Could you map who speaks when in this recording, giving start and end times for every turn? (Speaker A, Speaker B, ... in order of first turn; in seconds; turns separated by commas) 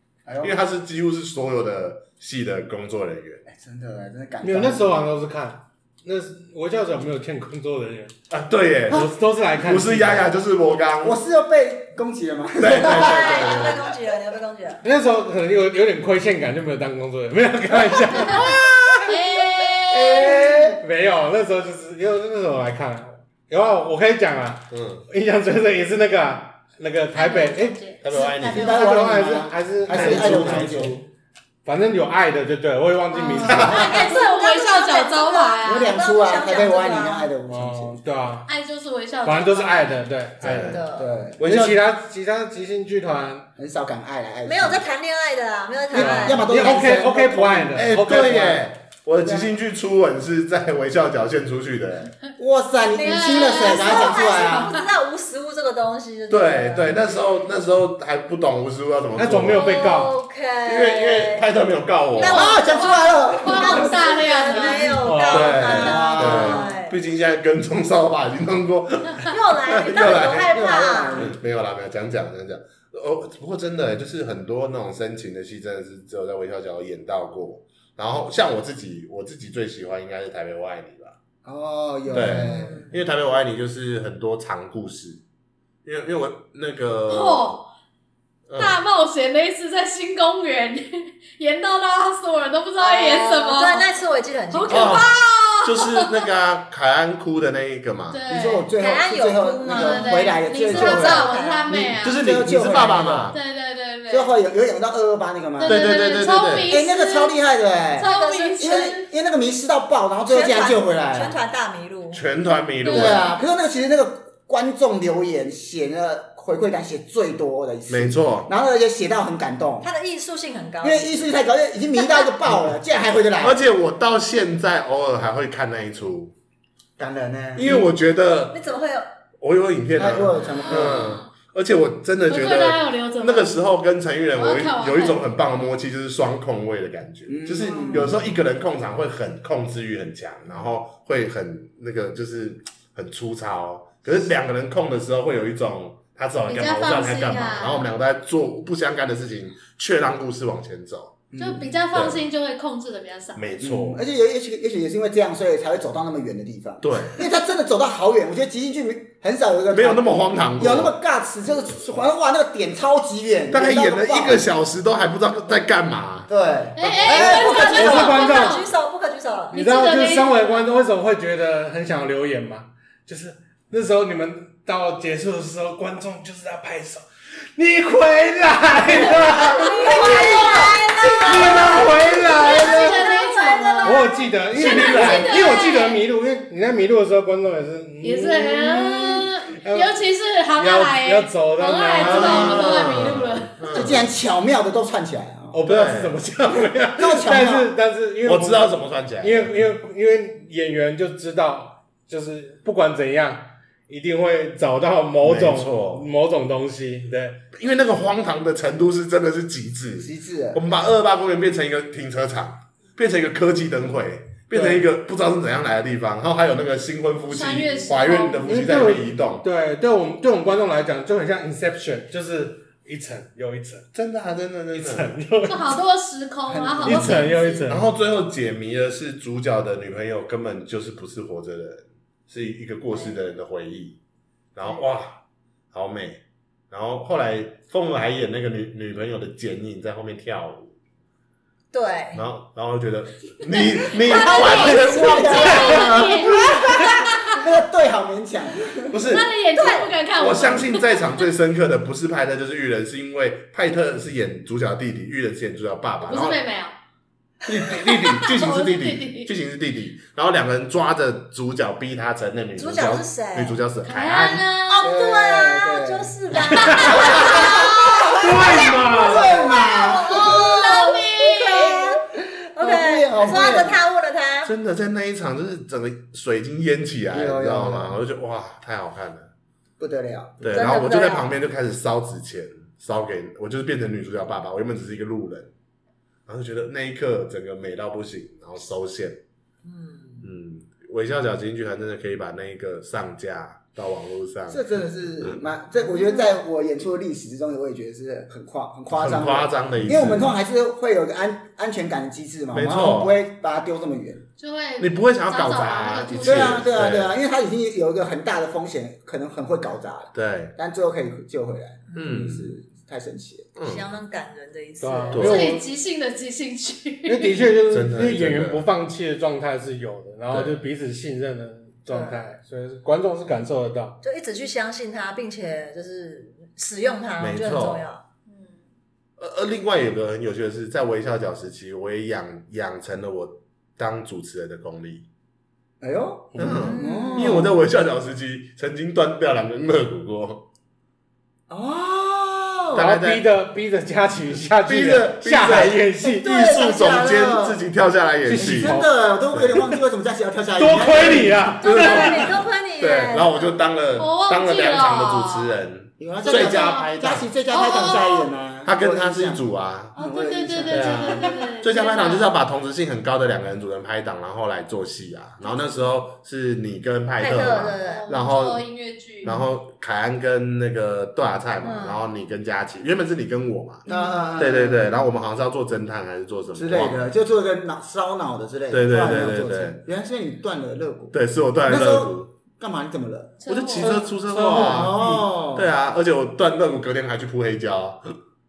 Speaker A: 0.3-0.6, Speaker B: 0.4-3.5, Speaker A: 3.5-5.1, Speaker C: 4.4-8.2, Speaker B: 8.3-11.2, Speaker C: 8.9-10.3, Speaker A: 11.0-13.8, Speaker B: 12.6-13.9, Speaker D: 12.8-14.9, Speaker C: 14.8-18.6, Speaker A: 18.3-19.1, Speaker E: 18.4-20.7, Speaker A: 19.9-20.8, Speaker C: 20.8-27.9, Speaker B: 24.7-25.1, Speaker E: 27.1-29.1, Speaker B: 28.0-29.0, Speaker A: 28.5-31.0, Speaker C: 28.6-31.1, Speaker B: 29.9-30.9, Speaker C: 31.6-33.8, Speaker D: 33.1-37.3, Speaker E: 33.5-36.0, Speaker B: 33.5-34.0, Speaker A: 35.6-38.0, Speaker C: 37.5-38.5, Speaker E: 38.5-40.0, Speaker C: 39.2-40.8, Speaker B: 40.4-40.8, Speaker D: 40.6-41.2, Speaker A: 41.0-41.8, Speaker C: 41.4-43.5, Speaker A: 43.6-44.8, Speaker D: 44.5-46.7, Speaker C: 45.9-48.6, Speaker A: 45.9-48.6, Speaker B: 47.8-52.1, Speaker A: 49.2-49.5, Speaker A: 52.4-54.7, Speaker D: 52.9-57.0, Speaker E: 53.0-54.9, Speaker B: 56.3-59.9, Speaker C: 59.1-60.1, Speaker D: 59.4-61.5, Speaker B: 60.6-62.6, Speaker E: 62.2-65.0, Speaker A: 62.2-64.8, Speaker D: 63.5-67.0, Speaker C: 65.0-65.8, Speaker B: 65.3-70.6, Speaker A: 65.6-66.8, Speaker E: 65.7-66.3, Speaker D: 69.3-71.3, Speaker A: 70.2-71.4, Speaker B: 71.1-81.2, Speaker A: 81.5-83.0, Speaker B: 82.1-85.2, Speaker D: 82.2-82.9, Speaker B: 85.8-87.6, Speaker E: 87.1-87.7, Speaker B: 88.5-88.8, Speaker E: 88.6-93.9, Speaker D: 92.8-95.1, Speaker E: 94.5-96.2, Speaker B: 94.7-95.1, Speaker B: 95.6-98.2, Speaker E: 98.1-98.7, Speaker A: 98.3-103.3, Speaker D: 98.8-100.2, Speaker E: 99.7-102.2, Speaker D: 100.7-101.7, Speaker B: 102.0-103.4, Speaker E: 103.3-104.3, Speaker A: 104.1-105.9, Speaker E: 105.6-107.4, Speaker B: 105.7-106.8, Speaker A: 106.7-111.3, Speaker E: 108.0-109.0, Speaker D: 108.0-109.0, Speaker D: 110.3-112.2, Speaker B: 112.1-113.3, Speaker E: 112.8-113.3, Speaker A: 112.9-119.9, Speaker B: 117.9-118.5, Speaker D: 119.8-121.2, Speaker A: 120.8-123.6, Speaker B: 123.4-126.3, Speaker A: 127.0-127.8, Speaker B: 127.6-128.6, Speaker D: 128.5-129.1, Speaker B: 129.4-151.2, Speaker A: 129.9-131.1, Speaker E: 130.4-131.2, Speaker E: 132.3-133.6, Speaker E: 134.3-135.2, Speaker A: 137.3-138.2, Speaker D: 137.7-138.1, Speaker E: 146.5-147.9, Speaker A: 151.3-151.7, Speaker E: 151.4-153.4, Speaker B: 151.9-152.2, Speaker B: 153.4-154.0, Speaker A: 153.6-164.4, Speaker B: 156.8-157.2, Speaker B: 159.7-160.9, Speaker B: 163.5-167.3, Speaker A: 166.3-167.8, Speaker E: 166.8-168.7, Speaker D: 167.1-169.6, Speaker C: 167.6-168.7, Speaker C: 169.5-180.2, Speaker E: 169.5-170.4, Speaker D: 179.5-184.0, Speaker E: 179.6-186.0, Speaker A: 179.8-180.7, Speaker C: 181.2-183.0, Speaker A: 181.3-183.0, Speaker C: 183.8-189.9, Speaker B: 184.5-185.3, Speaker E: 188.0-193.9, Speaker C: 190.6-192.9, Speaker B: 192.0-194.1, Speaker A: 192.0-192.5, Speaker A: 193.7-195.6, Speaker C: 195.5-207.4, Speaker B: 195.6-196.2, Speaker A: 197.0-197.7, Speaker B: 198.2-199.5, Speaker B: 205.2-206.1, Speaker B: 207.5-219.4, Speaker A: 210.0-210.6, Speaker C: 214.5-214.8, Speaker E: 217.3-218.7, Speaker C: 218.5-223.9, Speaker B: 223.9-225.2, Speaker C: 224.7-225.7, Speaker E: 225.4-227.3, Speaker A: 226.5-227.3, Speaker C: 226.8-227.9, Speaker B: 227.7-234.0, Speaker D: 232.9-233.2, Speaker B: 234.6-235.2, Speaker B: 235.7-240.7, Speaker D: 241.7-242.2, Speaker B: 242.2-246.6, Speaker E: 244.1-247.4, Speaker D: 244.1-245.6, Speaker A: 244.1-249.0, Speaker B: 248.9-249.3, Speaker E: 249.1-251.2, Speaker D: 249.6-249.9, Speaker B: 250.2-256.4, Speaker E: 256.0-256.7, Speaker B: 257.4-264.5, Speaker E: 257.6-259.3, Speaker D: 262.6-263.6, Speaker E: 263.8-264.9, Speaker D: 264.7-272.0, Speaker A: 264.8-270.7, Speaker C: 266.5-267.4, Speaker E: 267.1-267.4, Speaker C: 268.2-269.3, Speaker E: 270.0-271.9, Speaker D: 272.6-274.5, Speaker A: 272.6-273.8, Speaker B: 273.4-273.6, Speaker B: 274.4-279.3, Speaker A: 277.1-278.0, Speaker A: 279.8-280.7, Speaker B: 280.4-285.5, Speaker D: 280.5-281.3, Speaker B: 286.3-289.2, Speaker A: 289.7-290.2, Speaker B: 290.2-294.6, Speaker A: 294.5-304.2, Speaker B: 298.9-300.3, Speaker B: 302.5-303.1, Speaker E: 304.4-306.6, Speaker B: 304.8-307.1, Speaker A: 306.2-313.5, Speaker B: 310.1-310.5, Speaker B: 311.9-312.5, Speaker B: 313.6-313.9, Speaker D: 313.6-315.4, Speaker C: 314.8-315.6, Speaker B: 315.1-315.4, Speaker E: 315.2-317.4, Speaker C: 317.1-324.0, Speaker B: 317.7-318.7, Speaker B: 320.3-320.6, Speaker D: 321.9-322.2, Speaker D: 324.0-328.0, Speaker B: 327.2-327.9, Speaker E: 328.3-328.6, Speaker B: 329.2-335.1, Speaker A: 335.8-337.6, Speaker C: 336.3-336.7, Speaker B: 336.4-340.5, Speaker D: 336.4-337.5, Speaker A: 341.5-342.9, Speaker B: 342.7-343.2, Speaker C: 342.7-346.5, Speaker B: 344.6-348.8, Speaker A: 346.0-347.6, Speaker C: 348.2-348.9, Speaker A: 348.4-351.5, Speaker B: 349.3-349.6, Speaker C: 350.6-352.3, Speaker B: 350.9-357.3, Speaker D: 351.6-353.6, Speaker E: 354.0-355.6, Speaker A: 356.0-361.4, Speaker E: 356.2-356.9, Speaker E: 357.5-358.3, Speaker B: 358.6-359.9, Speaker E: 360.0-362.3, Speaker B: 360.7-368.6, Speaker D: 367.2-368.1, Speaker E: 367.9-369.4, Speaker B: 369.2-373.9, Speaker D: 371.6-372.0, Speaker A: 373.9-374.9, Speaker D: 373.9-374.2, Speaker B: 374.4-377.0, Speaker A: 376.5-385.7, Speaker B: 378.7-379.8, Speaker B: 381.1-382.3, Speaker E: 383.4-384.1, Speaker B: 383.5-388.0, Speaker C: 384.3-385.2